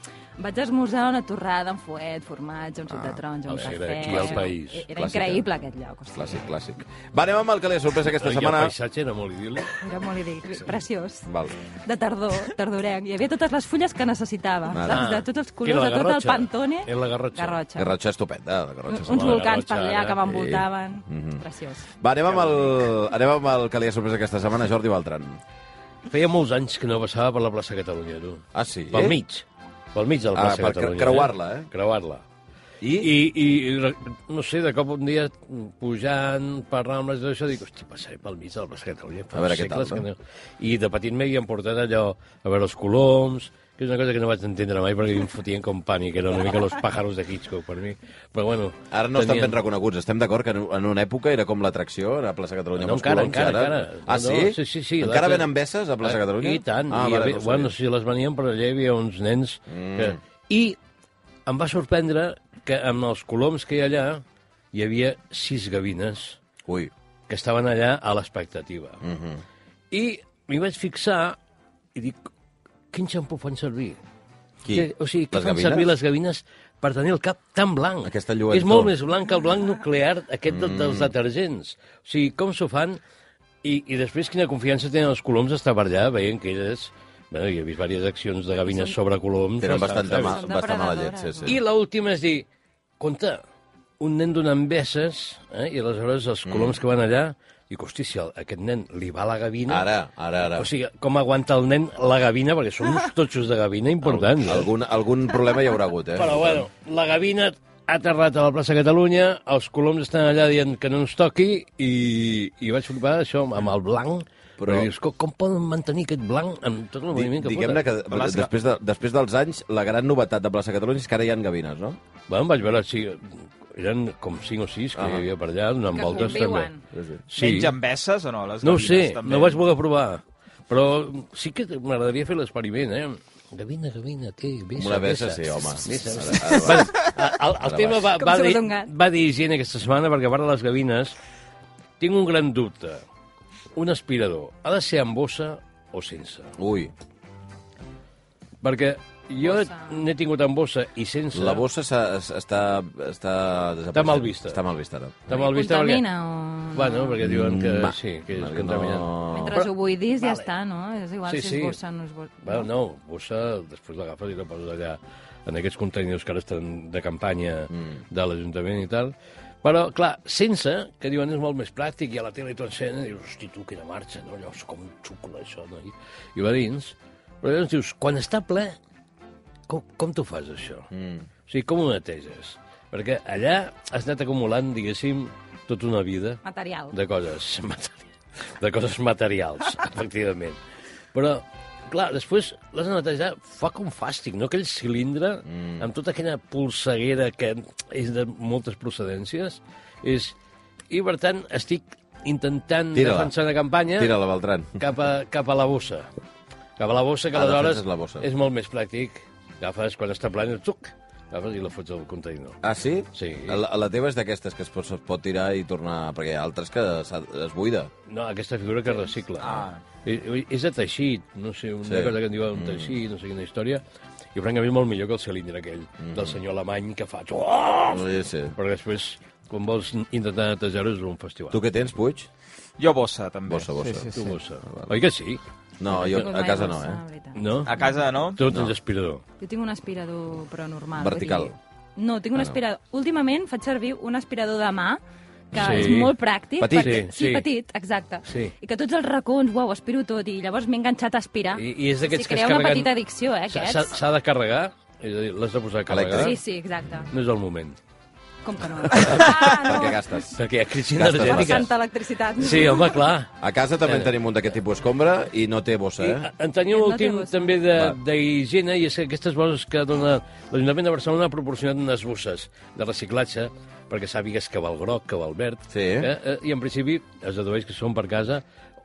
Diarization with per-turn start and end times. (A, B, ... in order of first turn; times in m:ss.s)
0:00.4-0:06.4 A
0:02.9-0:05.4 B
0:03.5-0:04.8 C
0:06.2-0:08.7 B
0:08.2-0:09.8 C
0:09.8-0:11.3 A
0:11.3-0:11.6 B
0:11.9-0:17.9 A
0:14.7-0:15.1 B
0:14.9-0:17.6 C
0:17.8-0:19.5 B
0:18.9-0:21.9 A
0:19.0-0:20.2 C
0:20.3-0:21.4 B
0:22.0-0:25.4 B
0:22.3-0:22.7 C
0:26.1-0:32.2 C
0:28.5-0:29.2 B
0:30.3-0:31.7 B
0:32.8-0:33.1 B
0:33.0-0:49.6 C
0:39.3-0:40.0 B
0:48.9-0:57.7 B
0:52.8-0:55.5 C
0:56.0-1:00.8 C
0:59.7-1:00.2 B
1:01.5-1:06.4 C
1:06.6-1:06.9 B
1:07.3-1:09.0 C
1:09.0-1:09.4 B
1:09.9-1:11.4 C
1:12.0-1:12.2 C
1:12.9-1:14.0 C
1:14.6-1:15.9 B
1:14.7-1:23.0 C
1:18.0-1:18.9 B
1:20.5-1:21.1 B
1:23.6-1:30.4 C
1:28.7-1:29.0 A
1:29.6-1:31.6 B
1:29.7-1:31.5 A
1:31.4-1:32.5 C
1:33.0-1:33.4 C
1:34.0-1:39.9 C
1:36.5-1:36.8 B
1:39.7-1:40.7 B
1:40.5-1:44.7 C
1:44.0-1:46.7 B
1:46.2-1:57.9 C
1:54.6-1:54.9 B
1:57.1-2:02.0 B
1:58.1-1:58.5 D
2:02.3-2:06.7 C
2:05.0-2:05.3 B
2:05.9-2:06.8 A
2:06.9-2:07.2 B
2:07.3-2:07.7 C
2:07.4-2:09.6 D
2:08.6-2:21.2 C
2:14.8-2:18.1 B
2:18.2-2:18.9 A
2:22.0-2:23.0 C
2:23.8-2:26.5 C
2:26.6-2:26.9 B
2:28.6-2:31.6 C
2:29.4-2:30.0 A
2:31.3-2:35.4 B
2:33.9-2:34.6 C
2:35.3-2:36.1 C
2:35.4-2:37.2 A
2:36.7-2:40.5 C
2:37.2-2:39.7 B
2:39.3-2:42.7 A
2:41.3-2:41.8 C
2:42.4-2:58.8 C
2:59.7-3:00.9 C
3:00.9-3:01.3 B
3:01.5-3:10.6 C
3:06.4-3:06.9 A
3:11.1-3:20.4 C
3:15.5-3:15.8 B
3:20.9-3:24.2 C
3:22.9-3:23.3 B
3:24.0-3:24.8 B
3:24.8-3:26.1 C
3:26.8-3:32.6 C
3:27.3-3:28.3 B
3:32.6-3:37.9 B
3:33.1-3:33.6 C
3:38.1-3:43.8 C
3:39.4-3:39.8 D
3:41.8-3:43.0 B
3:44.4-3:51.6 C
3:46.0-3:46.4 B
3:47.9-3:48.6 B
3:51.5-3:52.3 B
3:52.8-3:54.3 D
3:53.5-3:54.1 B
3:54.1-3:55.4 C
3:54.7-3:54.9 B
3:55.8-3:57.0 B
3:56.1-3:57.9 A
3:57.3-3:57.8 C
3:57.7-3:58.4 D
3:58.3-3:59.2 C
3:59.4-4:05.0 A
4:01.0-4:01.6 B
4:05.5-4:14.0 A
4:05.5-4:06.0 B
4:05.6-4:06.1 C
4:06.6-4:07.0 B
4:06.8-4:07.5 C
4:08.3-4:08.5 C
4:11.6-4:12.9 C
4:13.5-4:16.4 C
4:15.9-4:16.4 B
4:16.1-4:17.1 A
4:17.1-4:17.8 C
4:18.4-4:20.0 A
4:18.9-4:20.4 B
4:20.4-4:21.7 C
4:20.9-4:21.7 B
4:21.2-4:23.0 A
4:22.4-4:23.3 C
4:23.4-4:26.3 B
4:23.8-4:24.1 C
4:26.0-4:38.4 C
4:26.7-4:27.6 A
4:35.7-4:36.1 B